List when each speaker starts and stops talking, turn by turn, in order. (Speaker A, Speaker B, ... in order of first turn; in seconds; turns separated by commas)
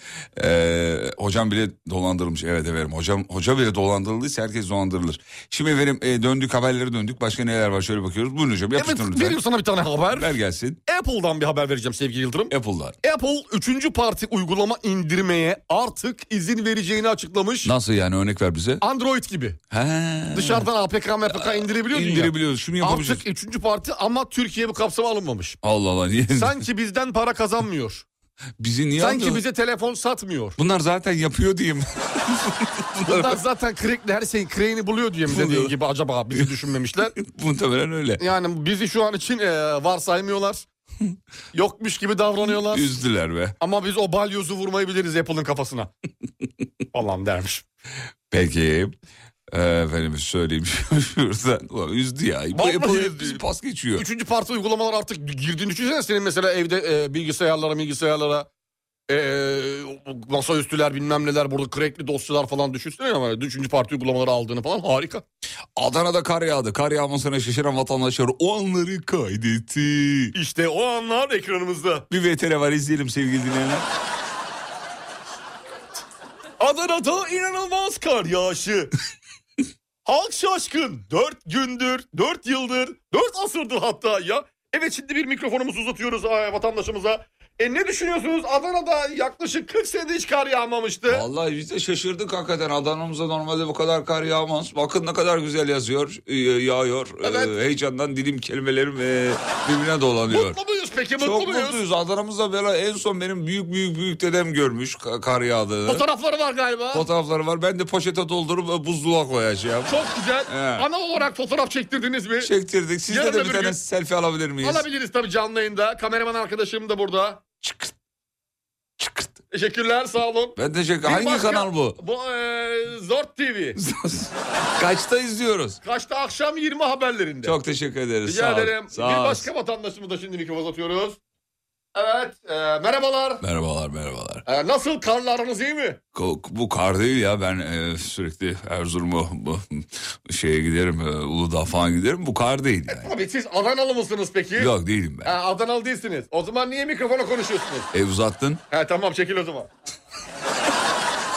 Speaker A: 0.3-9.4, Speaker B: 8.7-10.3, Speaker A: 10.1-10.8, Speaker B: 10.9-17.7, Speaker A: 12.5-12.9, Speaker A: 17.6-18.8, Speaker B: 18.8-19.6, Speaker A: 19.7-20.7, Speaker B: 20.3-25.6, Speaker A: 21.3-23.2, Speaker A: 25.6-26.6, Speaker B: 26.3-28.0, Speaker A: 28.6-29.4, Speaker B: 29.0-30.6, Speaker A: 30.6-33.4, Speaker B: 33.0-37.1, Speaker A: 35.3-35.7, Speaker A: 37.2-38.2, Speaker B: 38.2-40.6, Speaker B: 41.5-43.0, Speaker A: 42.5-43.5, Speaker B: 43.6-45.9, Speaker B: 46.9-47.6, Speaker A: 48.3-48.9, Speaker A: 49.5-54.0, Speaker B: 52.5-53.4, Speaker B: 53.9-58.5, Speaker B: 59.1-65.2, Speaker A: 65.8-70.3, Speaker B: 70.3-72.0, Speaker A: 72.1-73.9, Speaker B: 76.6-78.9, Speaker B: 80.0-91.2, Speaker A: 91.1-100.6, Speaker B: 97.2-97.5, Speaker B: 100.3-101.8, Speaker A: 101.2-106.0, Speaker B: 105.9-107.0, Speaker A: 106.9-110.8, Speaker B: 109.9-112.5, Speaker A: 112.4-114.8, Speaker B: 113.1-113.8, Speaker B: 114.6-117.4, Speaker A: 117.6-117.9, Speaker A: 119.0-119.4, Speaker B: 119.5-123.8, Speaker A: 120.6-122.0, Speaker A: 123.8-125.8, Speaker B: 125.8-127.5, Speaker A: 127.4-129.5, Speaker B: 128.2-131.2, Speaker B: 131.9-133.4, Speaker A: 133.4-134.4, Speaker B: 134.4-136.0, Speaker A: 136.1-143.1, Speaker B: 142.9-144.7, Speaker A: 144.6-145.3, Speaker B: 145.2-147.9, Speaker A: 147.9-148.6, Speaker B: 148.7-149.7